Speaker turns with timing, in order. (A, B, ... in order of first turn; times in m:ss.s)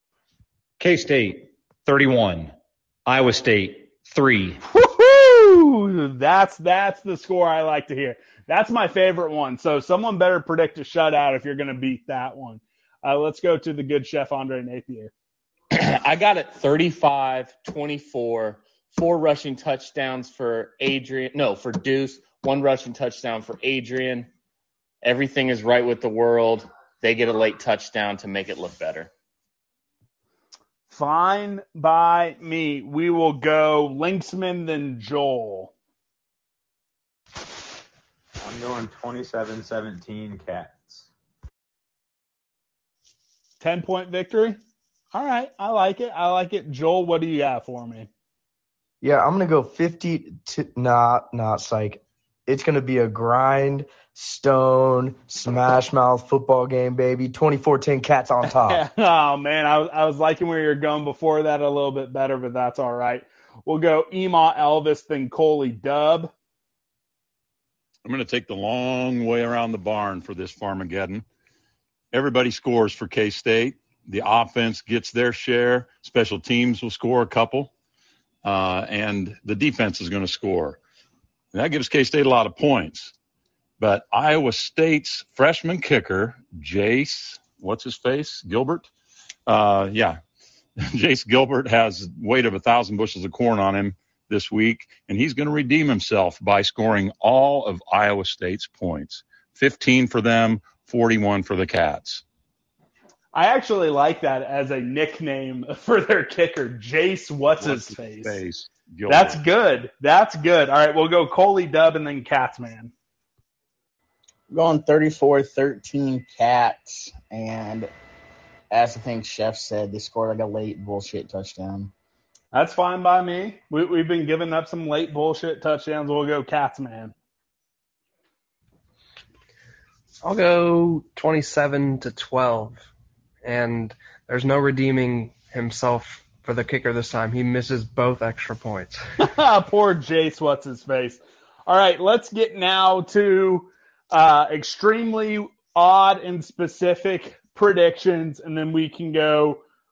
0:00.8-0:02.5 A
0:03.0-0:04.6 A
0:04.6-0:15.1 B
0:15.7-0:24.3 C
0:25.0-0:29.1 C
0:30.9-0:35.7 B
0:38.4-0:41.1 D
0:43.6-0:44.6 B
0:45.1-0:48.1 B
0:49.0-0:58.8 E
0:58.4-1:06.3 B
1:08.0-1:11.2 F
1:12.1-1:17.7 F
1:18.4-1:20.8 F
1:21.5-1:23.1 F
1:23.8-1:28.9 F
1:29.5-1:30.2 F
1:30.8-1:42.2 F
1:43.3-1:48.4 B
1:47.6-1:49.4 F
1:49.1-1:52.9 B
1:54.5-1:57.9 G
1:58.7-2:01.9 G
2:02.5-2:07.1 B
2:10.2-2:12.9 H
2:13.4-2:19.0 H
2:19.2-2:29.6 B